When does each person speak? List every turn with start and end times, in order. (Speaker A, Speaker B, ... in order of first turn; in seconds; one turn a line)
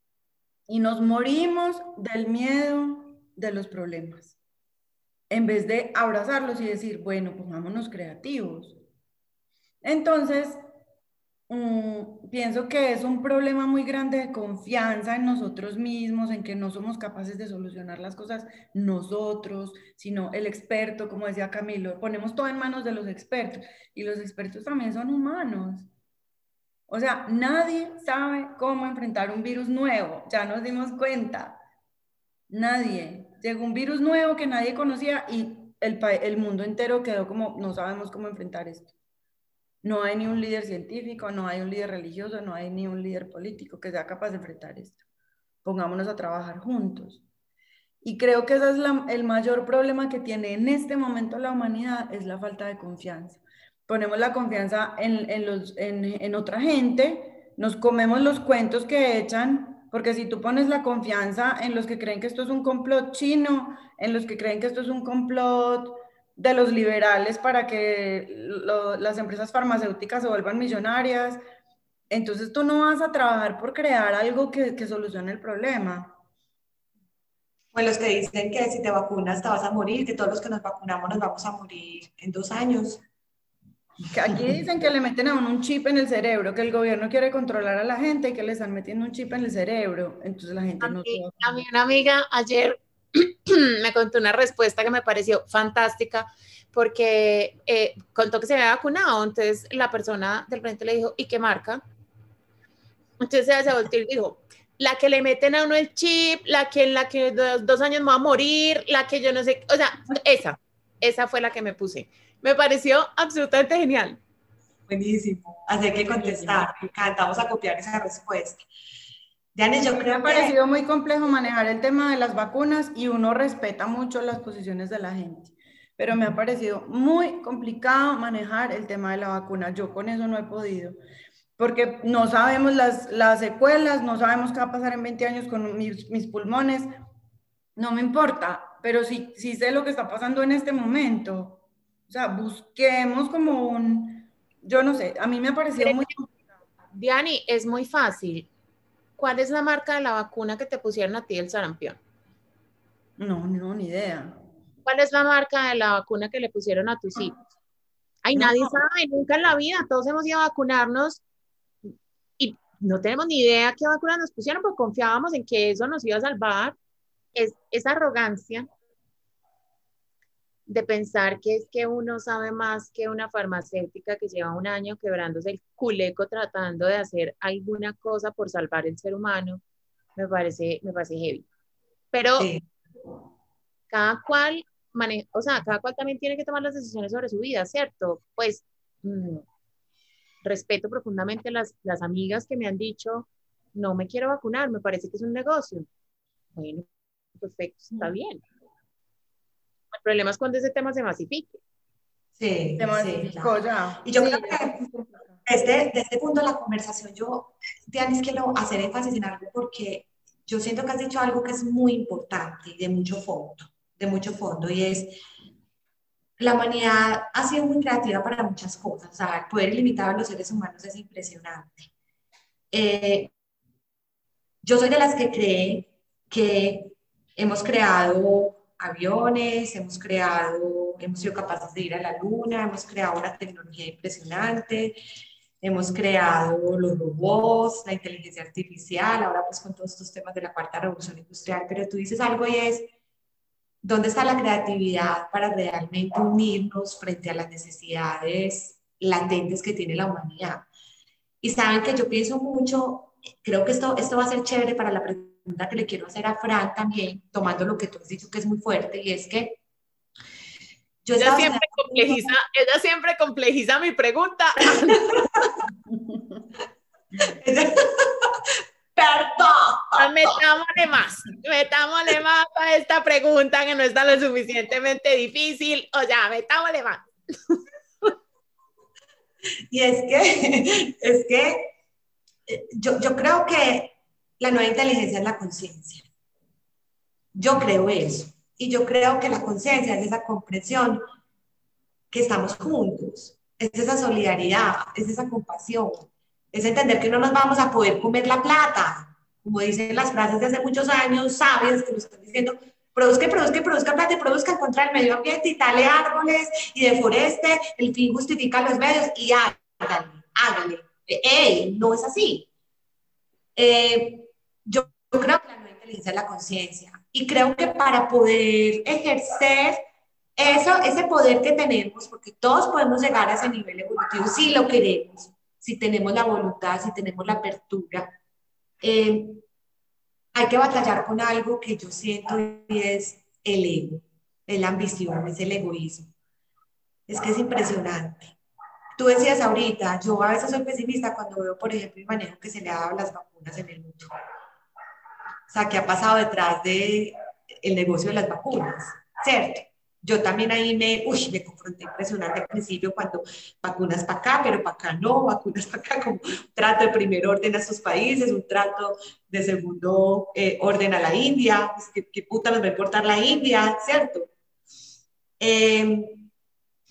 Speaker A: 0.7-4.3
Speaker A: 5.3-8.8
Speaker A: 9.8-10.6
Speaker A: 11.5-25.9
Speaker A: 26.9-31.6
Speaker A: 32.5-38.9
Speaker A: 39.8-45.0
Speaker A: 45.6-47.2
Speaker A: 48.0-71.4
Speaker A: 72.1-76.1
Speaker B: 77.7-83.0
Speaker A: 84.1-91.6
Speaker C: 90.8-101.8
Speaker C: 103.2-114.2
Speaker B: 114.9-118.6
Speaker C: 116.1-116.9
Speaker B: 119.5-120.5
Speaker A: 120.0-131.0
Speaker A: 131.6-136.9
Speaker A: 137.8-146.3
Speaker C: 145.8-146.1
Speaker C: 146.9-148.5
Speaker C: 149.2-152.0
Speaker A: 153.2-154.3
Speaker C: 154.8-157.4
Speaker C: 158.2-161.2
Speaker A: 158.4-158.7
Speaker C: 161.9-166.8
Speaker C: 167.3-168.7
Speaker C: 170.7-179.6
Speaker C: 180.2-181.5
Speaker C: 182.1-182.5
Speaker B: 182.4-182.6
Speaker C: 183.9-189.4
Speaker C: 190.4-195.9
Speaker C: 196.6-198.4
Speaker C: 199.9-201.6
Speaker B: 202.4-204.8
Speaker A: 202.8-205.3
Speaker B: 205.4-215.2
Speaker B: 216.4-221.9
Speaker B: 222.7-223.3
Speaker B: 224.6-235.0
Speaker B: 235.6-242.9
Speaker B: 243.8-250.7
Speaker B: 251.4-259.6
Speaker B: 261.1-262.3
Speaker C: 261.2-265.5
Speaker A: 265.9-266.4
Speaker B: 267.3-270.4
Speaker C: 270.0-278.1
Speaker B: 279.7-281.7
Speaker B: 282.5-286.1
Speaker B: 287.4-291.0
Speaker B: 292.1-312.5
Speaker B: 313.6-319.8
Speaker B: 320.4-328.1
Speaker B: 328.8-329.4
Speaker B: 330.3-336.1
Speaker B: 337.1-338.4
Speaker B: 339.0-344.1
Speaker B: 345.5-364.3
Speaker B: 365.4-366.3